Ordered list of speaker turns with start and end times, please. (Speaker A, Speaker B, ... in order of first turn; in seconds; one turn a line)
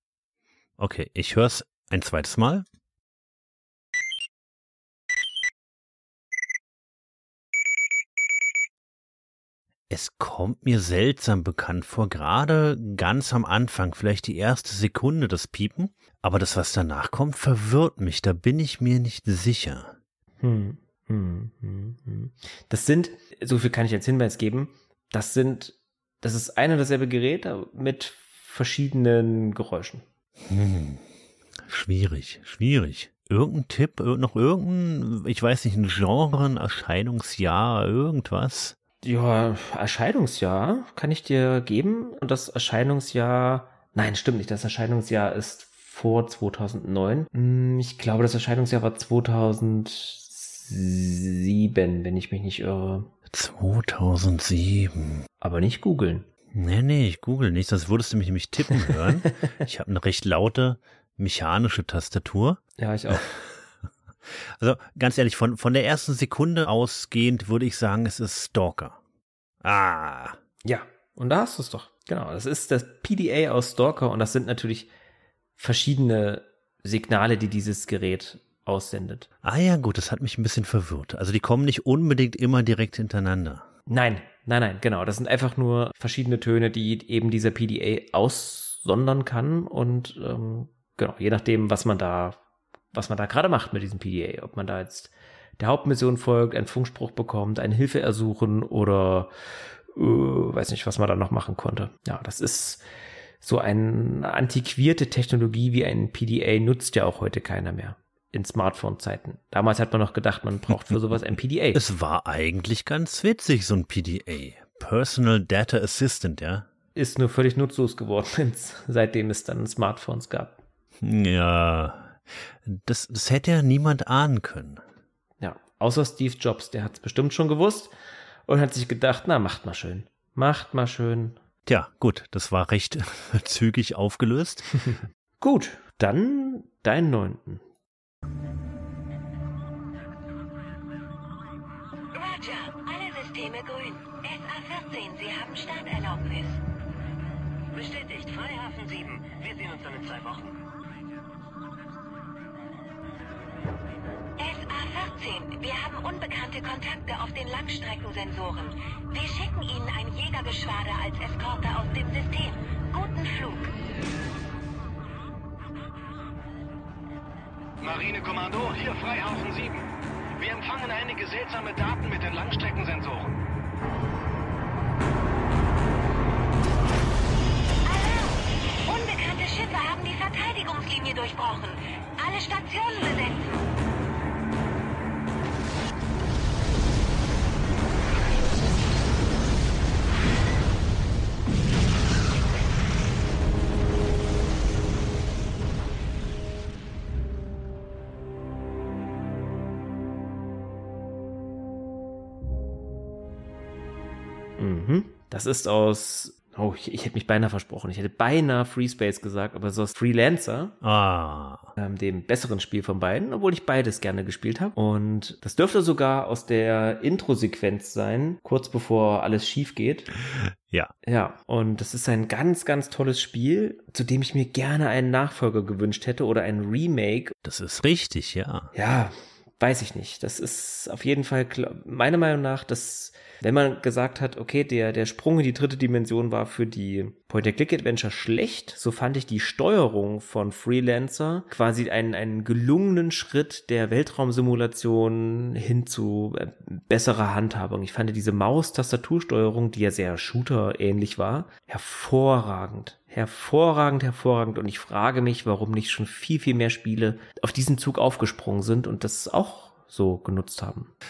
Speaker A: 0.8-2.6
Speaker A: 9.9-19.9
Speaker B: 20.4-30.0
Speaker A: 30.5-31.0
Speaker A: 31.6-38.8
Speaker B: 39.0-53.1
Speaker A: 53.3-55.2
Speaker B: 55.4-56.3
Speaker A: 56.5-62.6
Speaker B: 58.9-59.3
Speaker B: 62.8-63.3
Speaker A: 63.1-63.5
Speaker A: 64.4-69.0
Speaker A: 69.6-70.4
Speaker B: 70.7-74.9
Speaker B: 75.6-79.3
Speaker A: 79.4-83.7
Speaker B: 83.9-92.4
Speaker B: 92.9-99.3
Speaker B: 99.9-102.8
Speaker B: 103.4-111.8
Speaker A: 111.7-116.7
Speaker B: 117.0-120.6
Speaker A: 121.0-124.8
Speaker B: 125.4-127.9
Speaker B: 128.5-131.4
Speaker A: 131.7-134.7
Speaker B: 134.9-137.6
Speaker C: 142.1-146.6
Speaker C: 147.7-150.6
Speaker C: 154.4-163.7
Speaker D: 167.8-169.9
Speaker D: 170.4-173.4
Speaker C: 177.9-183.6
Speaker B: 204.6-210.8
Speaker A: 210.8-211.7
Speaker B: 211.8-220.1
Speaker A: 220.3-220.9
Speaker B: 221.1-227.3
Speaker A: 227.4-228.7
Speaker B: 228.7-260.9